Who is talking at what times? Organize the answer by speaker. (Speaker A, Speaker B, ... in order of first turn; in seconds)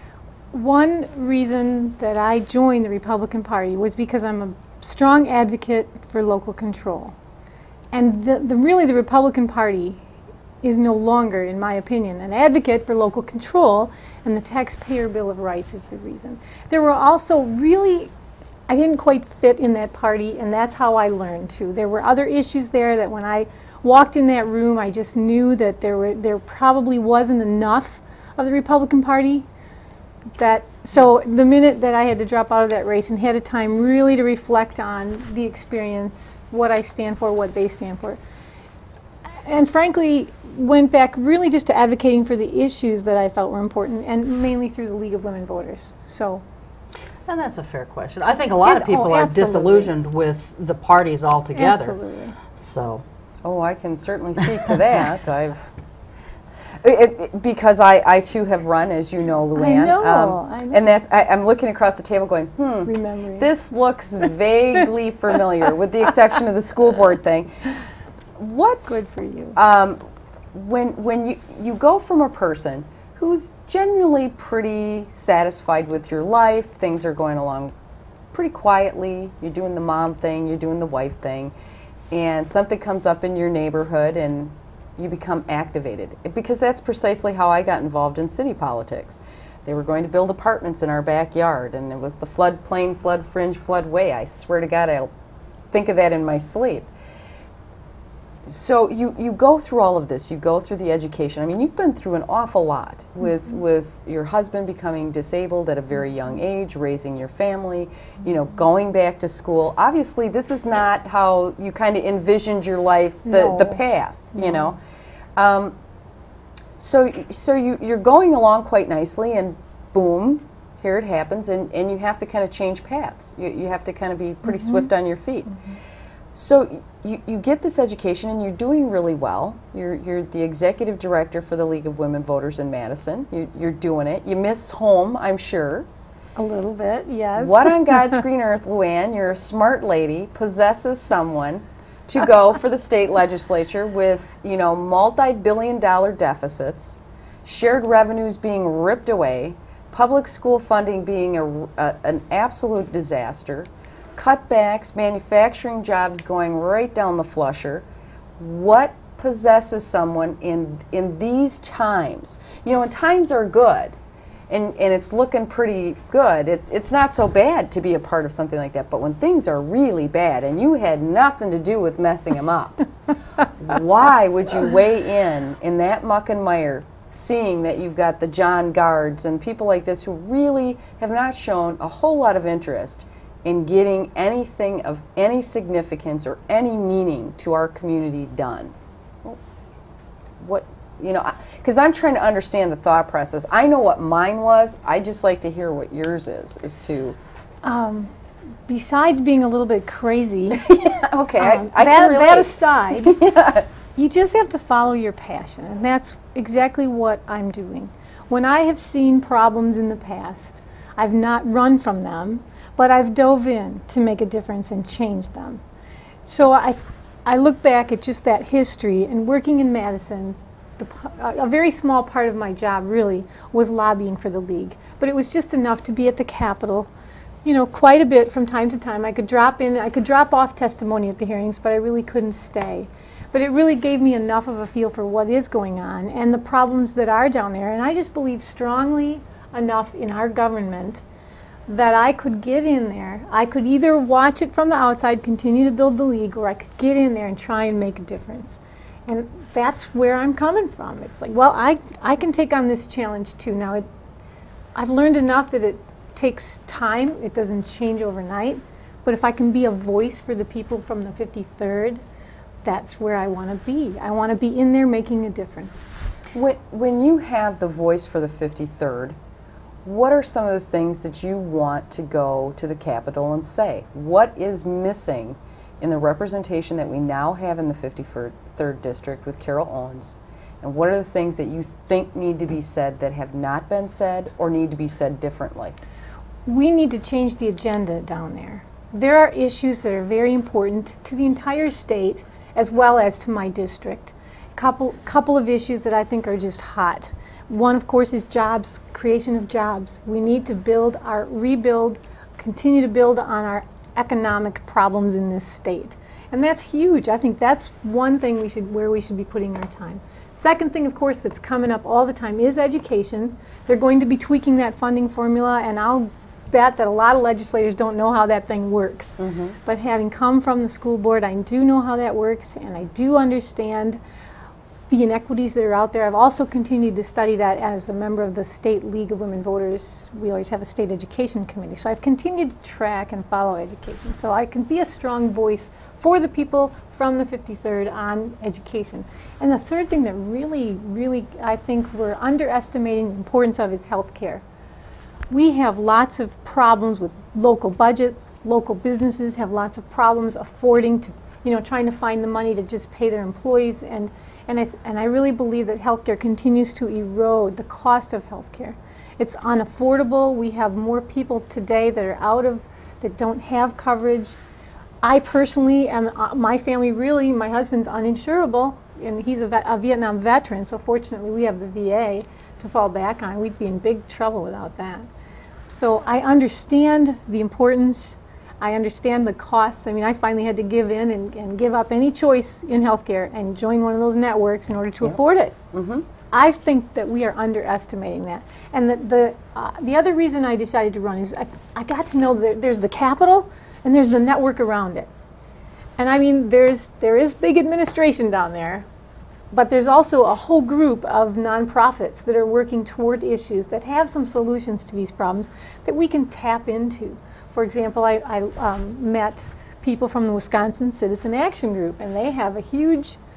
Speaker A: 0.5-7.2, 7.9-10.0, 10.6-18.1, 18.7-29.5, 30.4-38.2, 39.4-46.4, 48.6-49.9, 51.5-52.4, 59.5-60.9, 62.9-63.5, 68.9-69.6, 113.3-113.8, 114.4-114.7, 124.5-124.9, 136.4-138.2, 197.6-198.1, 198.7-203.2, 204.0-215.6, 216.2-226.9, 227.4-241.0, 241.7-253.8, 254.8-262.0, 262.6-265.9, 286.5-324.0, 324.9-344.4, 345.3-364.4, 365.0-375.1, 375.7-385.6, 386.3-395.1, 396.0-398.9, 399.5-413.2
Speaker B: 47.3-52.0, 52.5-53.0
Speaker C: 53.5-55.7, 56.8-67.7, 68.4-69.0, 69.5-70.0, 70.5-77.7, 78.3-81.5, 82.1-95.1, 95.7-96.9, 98.5-114.8, 115.4-115.8, 116.8-125.6, 126.3-135.9, 137.4-157.8, 158.4-163.9, 164.5-172.9, 173.4-188.7, 190.4-197.2, 200.6-203.7, 266.3-269.2, 269.9-285.8, 319.2-319.6, 385.7-386.1